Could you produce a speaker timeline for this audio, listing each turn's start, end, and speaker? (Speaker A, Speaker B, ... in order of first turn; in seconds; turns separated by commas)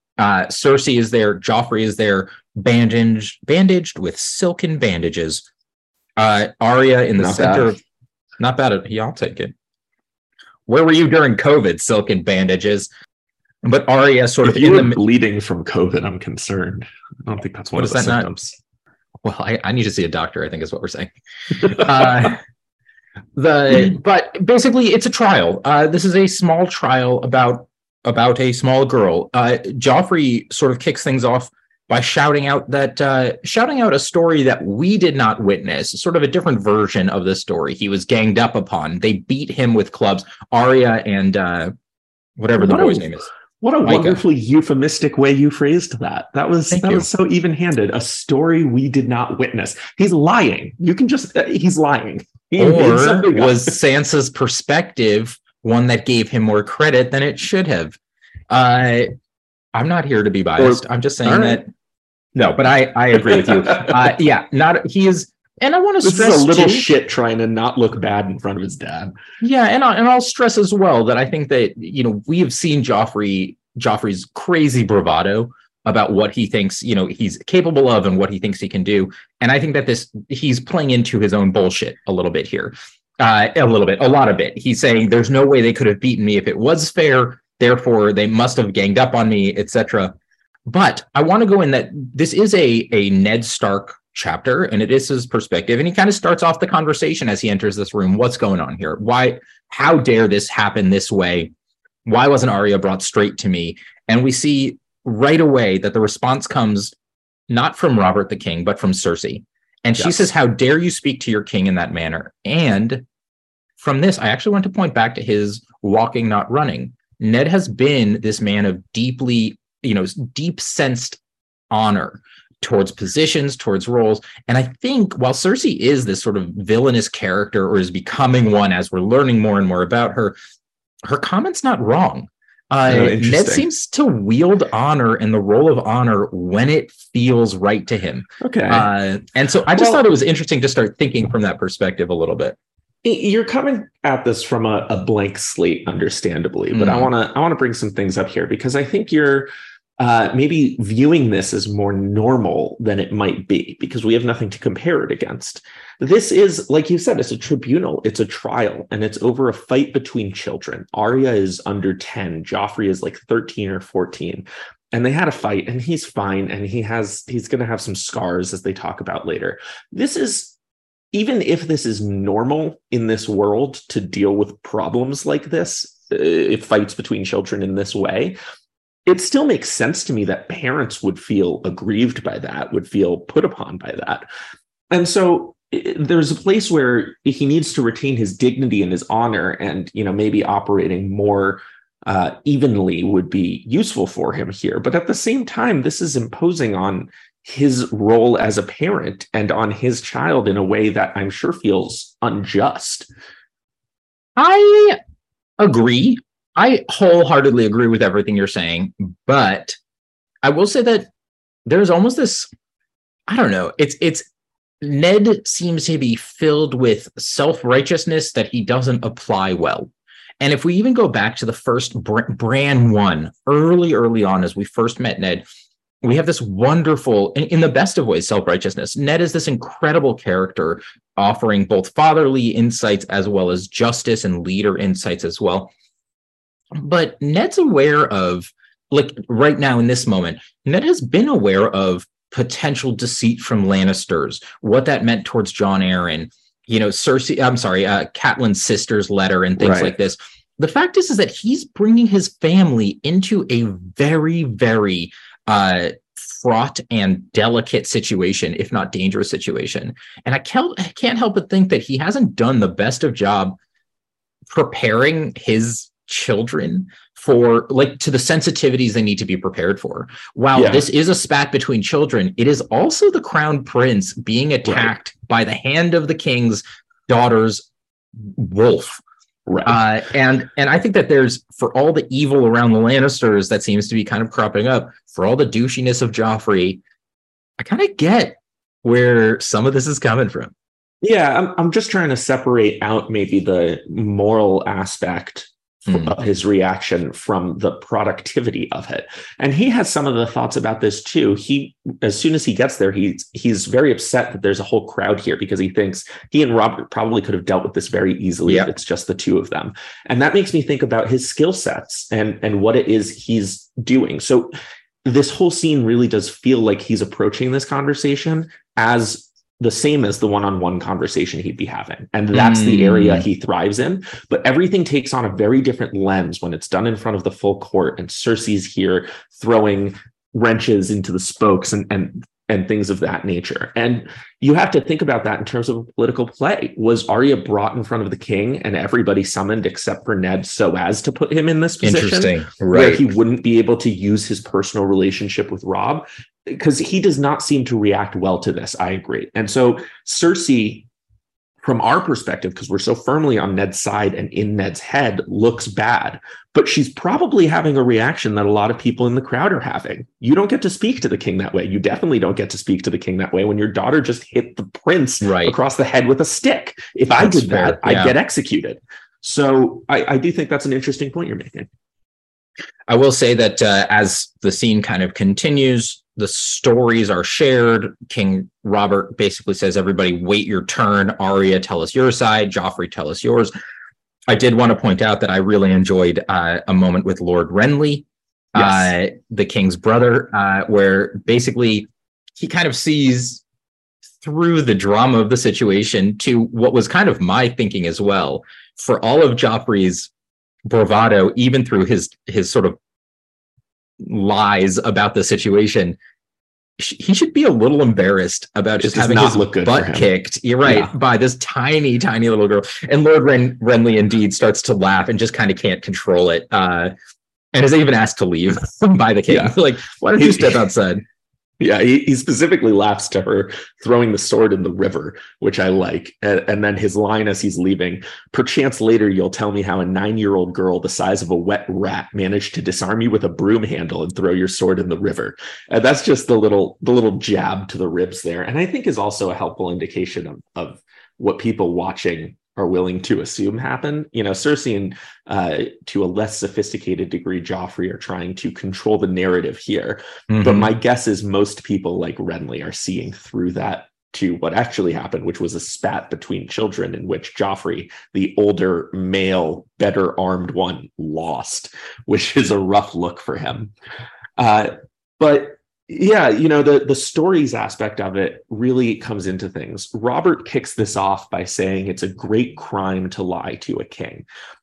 Speaker A: 0.2-5.5, Speaker A: 6.2-7.8, Speaker B: 7.2-7.8, Speaker A: 8.4-9.5, Speaker A: 10.7-12.9, Speaker A: 13.6-15.0, Speaker B: 14.4-18.6, Speaker A: 17.8-18.3, Speaker A: 19.2-21.1, Speaker A: 21.6-22.4, Speaker A: 23.3-41.7, Speaker A: 42.4-43.3, Speaker B: 42.6-53.8, Speaker A: 43.8-44.2, Speaker A: 46.7-47.1, Speaker A: 52.6-58.0, Speaker A: 58.5-59.1, Speaker A: 59.7-61.7, Speaker B: 60.6-61.6, Speaker A: 62.3-66.9, Speaker B: 63.3-63.9, Speaker B: 66.0-69.1, Speaker A: 69.4-90.1, Speaker A: 90.7-101.5, Speaker A: 102.0-106.9, Speaker A: 107.5-113.0, Speaker A: 113.8-121.2, Speaker A: 121.7-130.3, Speaker A: 131.0-142.6, Speaker B: 132.8-133.7, Speaker B: 138.4-138.9, Speaker B: 139.7-140.0, Speaker B: 143.0-170.5, Speaker A: 146.7-147.1, Speaker B: 171.1-178.3, Speaker B: 179.1-184.3, Speaker B: 184.9-203.1, Speaker A: 204.3-205.0, Speaker A: 205.6-209.8, Speaker A: 210.4-211.1, Speaker A: 211.7-212.5, Speaker A: 213.3-214.3, Speaker A: 214.8-225.4, Speaker A: 226.0-235.7, Speaker A: 236.7-263.6, Speaker B: 249.6-249.9, Speaker A: 264.5-277.7, Speaker B: 270.5-270.9, Speaker B: 274.7-274.9, Speaker A: 278.2-279.0, Speaker B: 279.5-279.8, Speaker A: 279.6-286.8, Speaker A: 287.6-290.5, Speaker B: 291.0-314.5, Speaker A: 295.9-296.1, Speaker B: 315.0-350.9, Speaker A: 322.3-323.2, Speaker A: 341.8-343.1, Speaker B: 351.6-371.7, Speaker A: 365.2-365.5, Speaker A: 367.2-368.1, Speaker A: 372.9-383.5, Speaker A: 384.3-393.4, Speaker B: 388.5-388.9, Speaker A: 394.2-400.1, Speaker A: 400.6-402.8, Speaker A: 404.0-406.0, Speaker A: 406.8-416.9, Speaker B: 408.8-410.1, Speaker B: 410.6-410.9, Speaker A: 417.5-421.0, Speaker B: 419.3-420.6, Speaker B: 421.6-463.7, Speaker A: 450.3-450.7, Speaker B: 464.4-474.2